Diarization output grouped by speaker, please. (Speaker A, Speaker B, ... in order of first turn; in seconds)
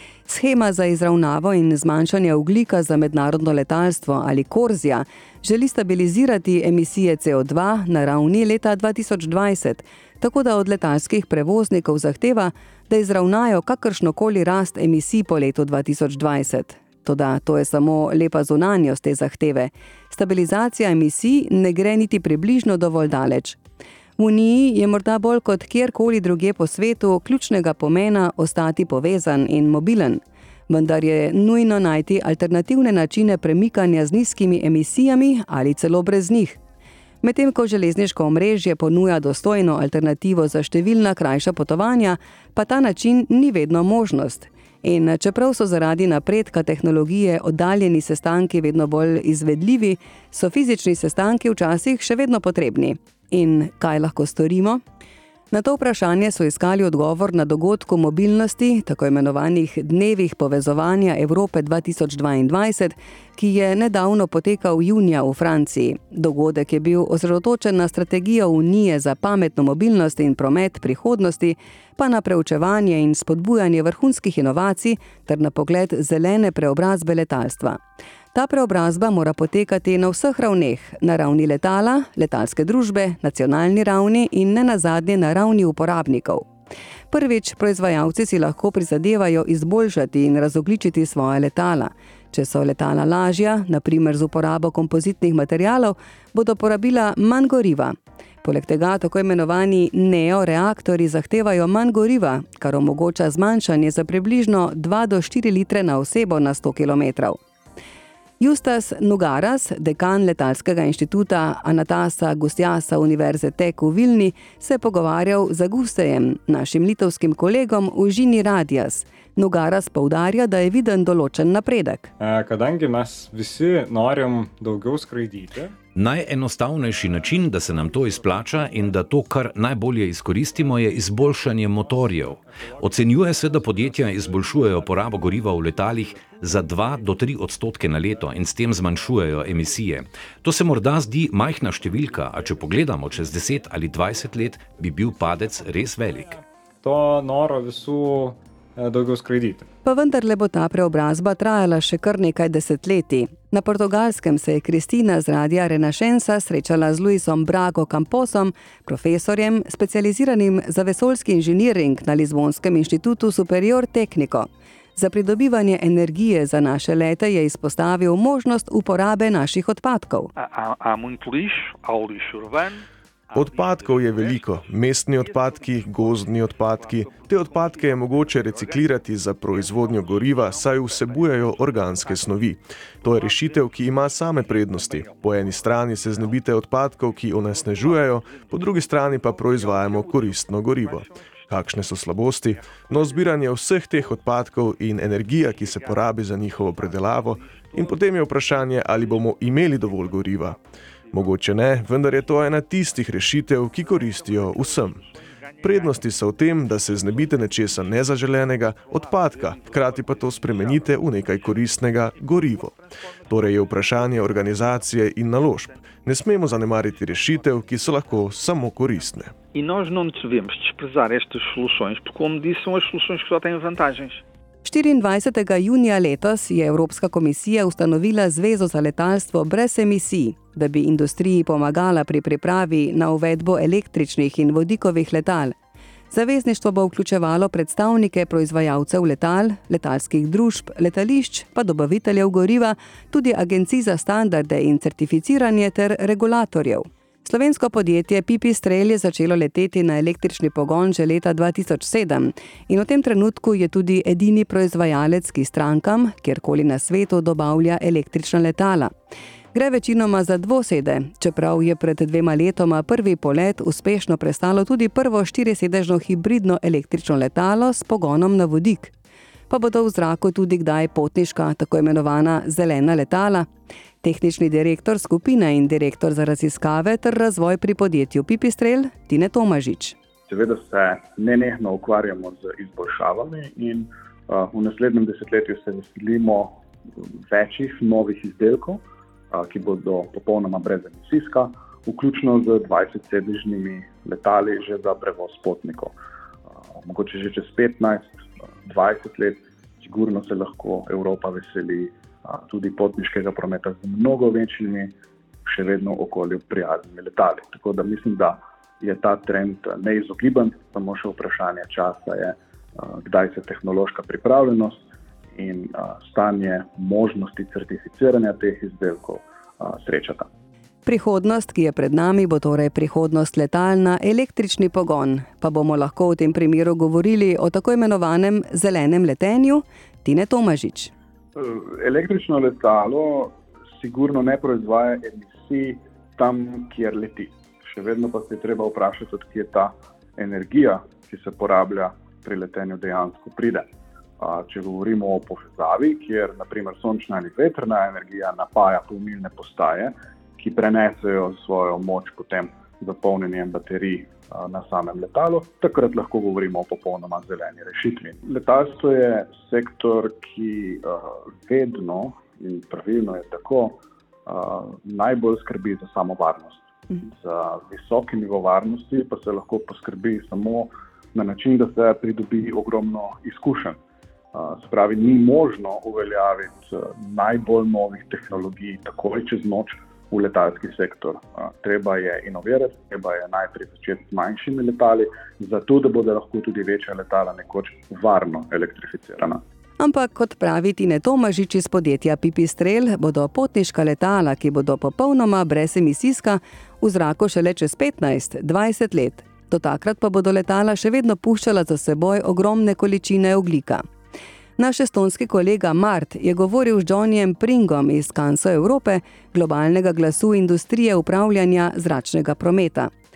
Speaker A: 0.3-23.6, 24.2-36.6, 37.2-54.8, 55.5-77.8, 78.3-86.5, 87.1-107.4, 108.4-122.1, 149.8-170.3, 224.6-235.6, 236.1-258.9, 259.5-268.9, 269.5-273.5, 274.0-279.9, 320.9-330.9, 389.8-403.8, 404.6-412.9
Speaker B: 122.2-125.7, 146.8-149.6
Speaker C: 125.9-146.4
Speaker D: 170.4-172.8, 173.3-173.9, 219.5-224.2
Speaker E: 173.3-200.6, 201.1-205.1, 205.6-219.3
Speaker F: 280.3-286.6, 287.3-295.9, 296.8-304.9, 305.4-314.8, 315.3-320.3, 331.4-343.7, 344.2-373.8, 374.3-389.4